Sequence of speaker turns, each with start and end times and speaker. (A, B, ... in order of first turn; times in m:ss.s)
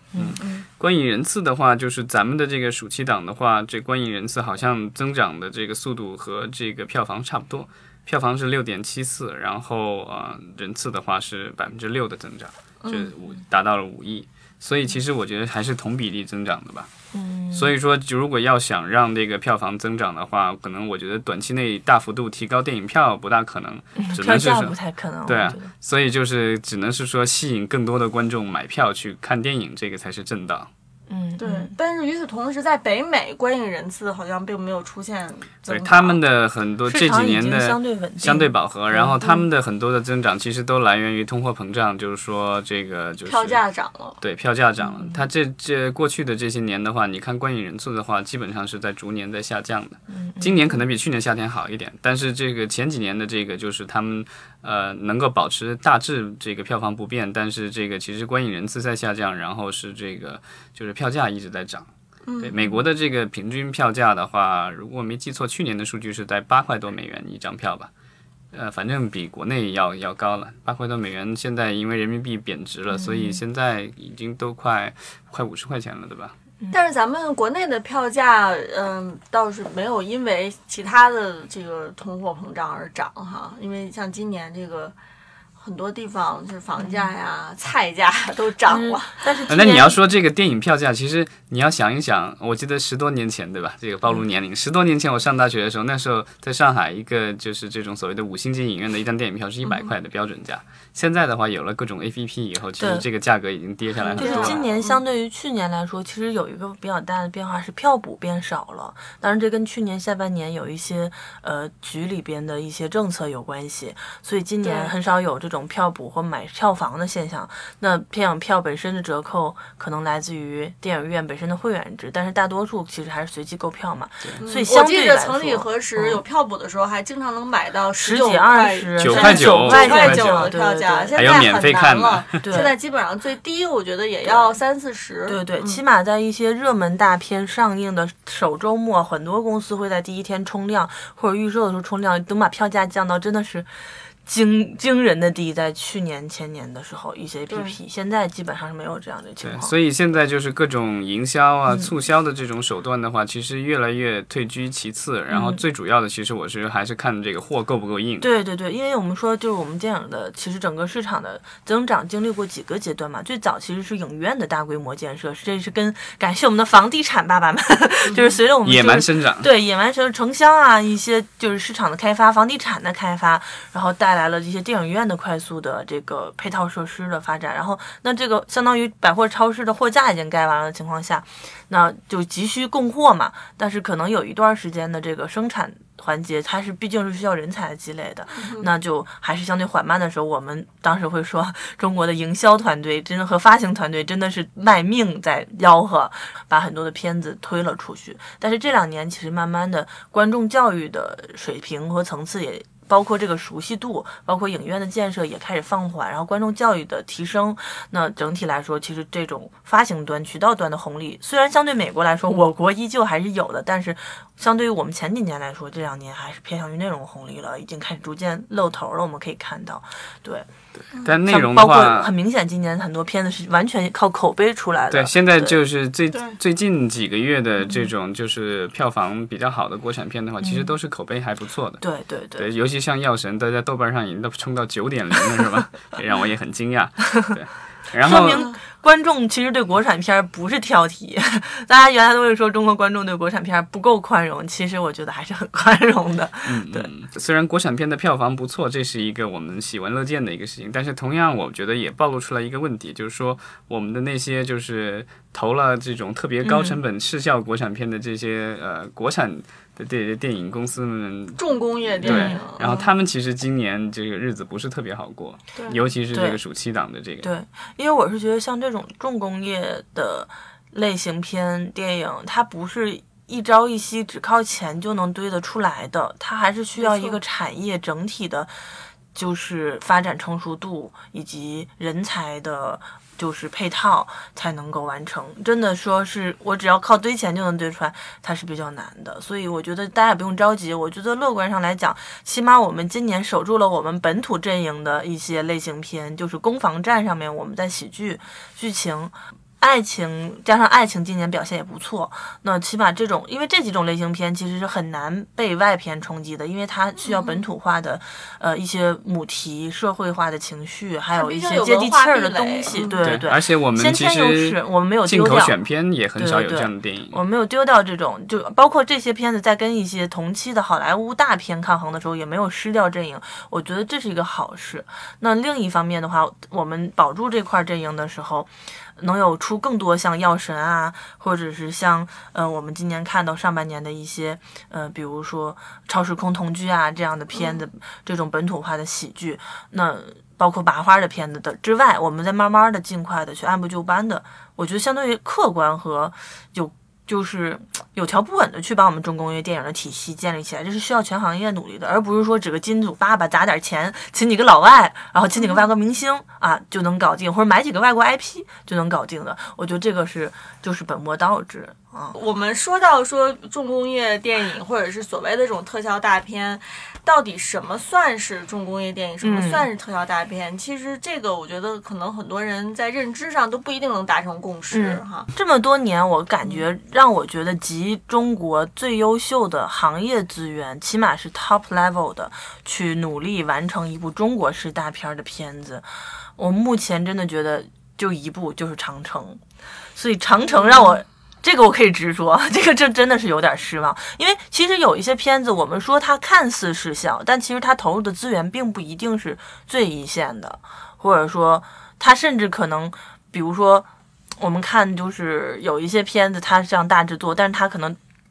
0:00.1-0:00.4 A
0:00.1-0:16.9 B
0:00.4-0:00.6 C
0:12.8-0:13.1 C
0:17.1-0:17.7 A
0:17.5-0:30.7 B
0:24.0-0:25.7 A
0:31.1-0:31.7 A
0:31.4-0:36.2 C
0:35.7-0:43.6 B
0:36.9-0:39.2 A
0:43.2-0:44.2 C
0:44.2-1:01.9 B
0:44.8-0:45.2 A
0:50.1-0:50.6 A
1:02.2-1:02.5 C
1:02.4-1:07.9 B
1:08.5-1:16.3 B
1:12.9-1:13.4 A
1:16.7-1:24.9 C
1:25.6-1:29.7 C
1:26.8-1:27.1 A
1:28.6-1:30.0 A
1:29.5-1:44.6 B
1:39.6-1:39.9 C
1:42.8-1:43.0 A
1:44.0-1:45.0 C
1:44.2-2:06.2 A
1:54.6-1:54.9 C
2:04.4-2:15.8 C
2:08.0-2:11.7 A
2:09.0-2:10.5 B
2:11.1-2:12.4 B
2:12.4-2:12.7 A
2:14.2-2:14.6 A
2:15.3-2:23.7 A
2:24.2-2:29.7 A
2:27.5-2:27.8 C
2:29.4-2:38.3 B
2:35.3-2:35.6 A
2:38.2-3:40.5 A
2:48.1-2:48.3 C
2:48.6-2:49.5 B
3:08.3-3:08.7 C
3:40.9-3:42.1 B
3:41.2-3:45.6 A
3:44.9-3:51.8 B
3:46.1-3:46.4 C
3:50.4-3:50.7 A
3:51.8-3:52.5 A
3:52.4-3:58.5 B
3:58.0-4:06.9 A
4:06.4-4:21.4 B
4:16.4-4:16.8 A
4:21.4-4:22.7 C
4:22.0-4:27.3 B
4:22.0-4:22.8 A
4:26.1-4:26.4 A
4:27.2-4:38.5 A
4:36.8-4:37.2 C
4:39.1-5:15.5 A
5:07.0-5:07.4 C
5:11.1-5:13.0 C
5:13.0-5:17.2 B
5:16.2-6:02.2 A
5:37.3-5:37.6 C
5:55.4-5:55.7 C
6:02.1-6:15.3 C
6:09.2-6:09.7 A
6:14.7-6:29.4 A
6:29.9-6:43.9 A
6:30.6-6:30.9 C
6:44.4-6:48.0 A